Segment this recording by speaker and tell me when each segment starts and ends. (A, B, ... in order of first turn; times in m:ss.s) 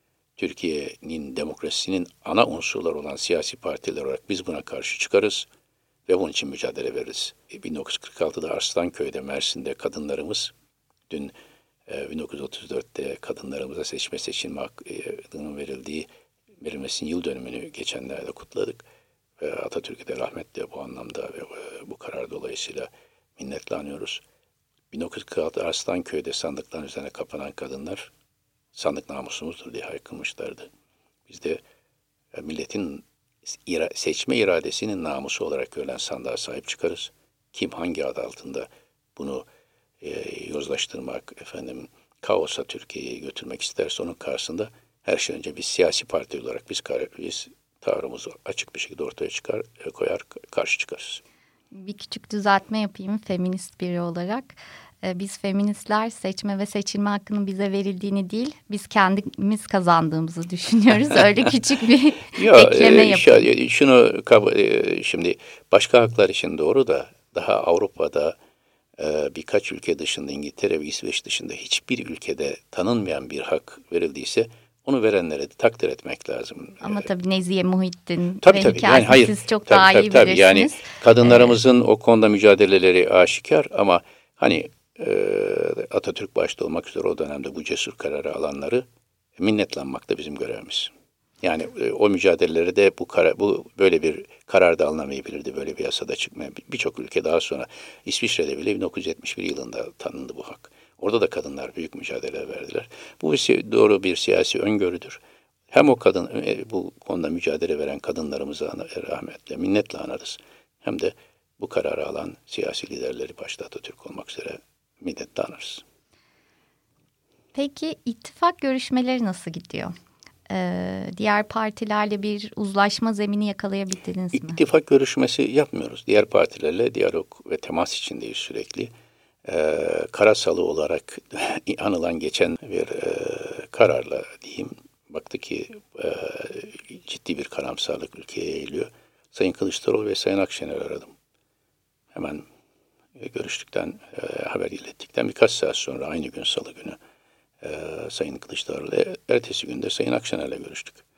0:00.4-0:05.5 A
0:06.0-0:10.5 A
0:11.9-0:16.1 A
0:16.6-0:18.8 A
0:19.4-0:24.2 A
0:24.9-0:28.1 A
0:28.7-0:30.7 A
0:31.3-0:31.6 A
0:32.3-0:39.4 A
0:40.0-0:51.2 A
0:51.7-1:03.5 B
1:02.3-1:08.4 A
1:09.0-1:17.1 A
1:16.8-1:21.6 B
1:18.4-1:28.8 A
1:29.4-1:45.2 A
1:45.7-1:55.8 A
1:57.5-1:59.9 B
2:00.5-2:04.6 B
2:04.3-2:08.9 A
2:09.4-2:21.1 A
2:22.1-2:22.4 A
2:23.1-2:27.0 A
2:27.6-2:31.0 A